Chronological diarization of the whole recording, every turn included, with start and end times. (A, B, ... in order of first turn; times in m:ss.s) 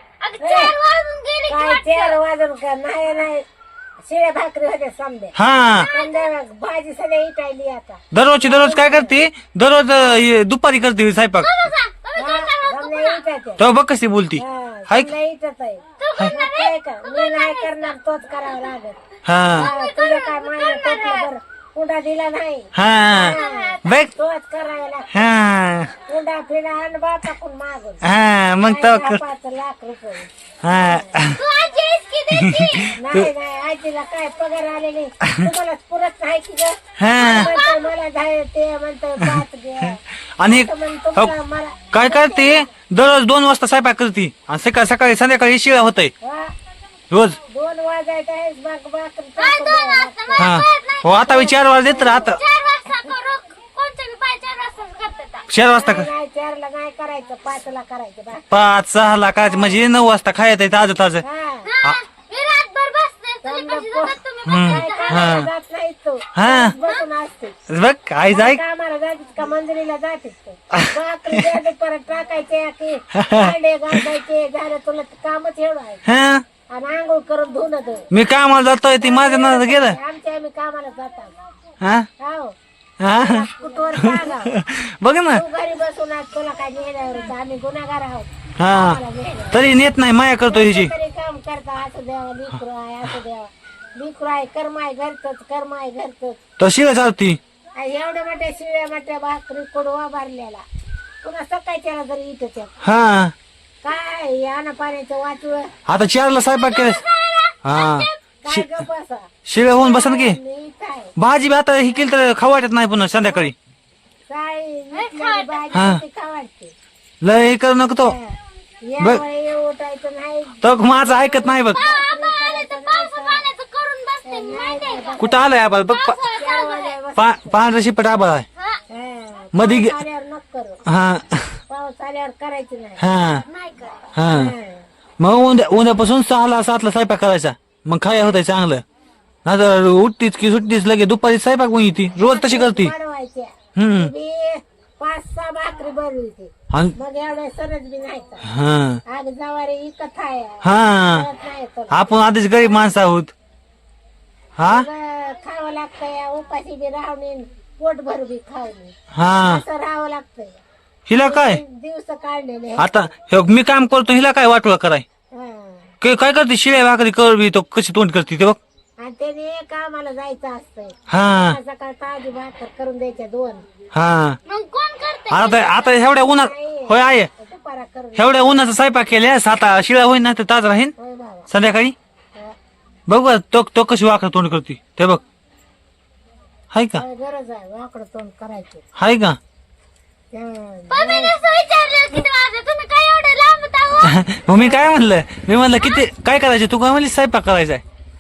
0:00.2-0:02.2 A
0:00.4-0:00.7 B
0:01.5-0:03.5 B
0:04.0-0:05.4 B
0:05.4-0:05.9 C
0:05.7-0:06.3 A
0:05.9-0:09.2 B
0:08.1-0:11.7 C
0:11.4-0:13.2 A
0:12.2-0:13.6 B
0:13.6-0:15.1 C
0:14.4-0:19.0 B
0:16.0-0:17.9 A
0:19.2-0:19.7 C
0:19.5-0:25.3 B
0:19.6-0:21.3 A
0:22.8-0:24.1 C
0:23.1-0:23.8 A
0:25.1-0:26.0 C
0:26.0-0:28.0 B
0:28.0-0:29.2 C
0:28.6-0:31.2 B
0:30.6-0:31.4 C
0:31.2-0:33.0 A
0:32.3-0:33.3 C
0:33.0-0:42.7 B
0:37.0-0:37.5 C
0:37.2-0:37.9 A
0:39.2-0:41.3 C
0:41.9-0:46.1 C
0:46.2-0:46.5 B
0:47.1-0:47.4 C
0:47.5-0:50.6 B
0:49.4-0:55.5 A
0:50.4-0:52.4 C
0:51.2-0:52.3 B
0:55.5-0:56.1 C
0:55.7-0:58.5 B
0:58.5-1:01.2 C
0:59.4-0:59.8 B
1:01.2-1:01.7 B
1:01.6-1:05.5 A
1:03.4-1:07.6 B
1:04.4-1:05.5 C
1:06.3-1:06.8 C
1:07.7-1:08.6 C
1:08.3-1:16.0 B
1:10.7-1:11.4 C
1:13.1-1:14.0 C
1:16.0-1:16.4 C
1:16.7-1:18.1 B
1:18.1-1:20.0 C
1:19.0-1:21.4 B
1:21.8-1:22.1 C
1:22.2-1:22.6 B
1:23.0-1:25.4 C
1:23.1-1:24.6 B
1:25.3-1:29.7 B
1:28.6-1:29.0 C
1:29.5-1:30.9 C
1:30.4-1:36.4 B
1:36.6-1:37.4 C
1:37.8-1:40.6 B
1:41.2-1:42.8 B
1:42.8-1:43.4 C
1:43.8-1:45.8 B
1:45.9-1:47.0 C
1:46.6-1:48.2 A
1:47.6-1:48.8 C
1:48.4-1:51.1 B
1:49.5-1:50.4 C
1:51.2-1:53.6 C
1:54.3-1:56.7 B
1:54.9-1:55.7 A
1:55.7-1:56.0 C
1:57.2-1:58.2 C
1:58.0-2:03.4 B
2:00.6-2:01.8 C
2:01.5-2:07.0 A
2:04.2-2:05.4 B
2:05.2-2:06.2 C
2:06.3-2:07.6 B
2:07.2-2:08.5 C
2:08.6-2:08.8 A
2:08.9-2:10.8 B
2:09.5-2:10.0 C
2:10.9-2:11.6 C
2:11.7-2:13.1 B
2:13.0-2:13.4 C
2:13.4-2:14.1 A
2:14.1-2:14.5 C
2:14.3-2:14.9 B
2:15.2-2:18.8 C
2:19.4-2:22.9 C
2:22.2-2:28.4 B
2:23.8-2:24.1 C
2:28.4-2:29.0 C
2:29.1-2:32.1 B
2:30.6-2:31.3 C
2:31.9-2:33.3 C
2:34.6-2:34.9 C
2:34.6-2:40.6 B
2:39.1-2:39.6 C
2:41.1-2:41.6 C
2:41.2-2:43.1 B
2:42.8-2:45.0 C
2:45.3-2:45.9 B
2:46.0-2:48.6 C
2:49.0-2:53.7 B
2:51.1-2:51.6 C
2:53.9-2:54.4 C
2:54.5-2:56.0 A
2:55.3-2:57.3 C
2:56.1-2:58.6 B
2:58.2-3:00.9 C
3:01.0-3:01.5 B
3:01.5-3:02.0 C
3:03.1-3:05.2 C
3:06.7-3:07.0 C
3:07.0-3:08.9 B
3:09.0-3:09.4 C
3:10.3-3:11.4 B
3:10.9-3:14.7 A
3:14.0-3:17.8 C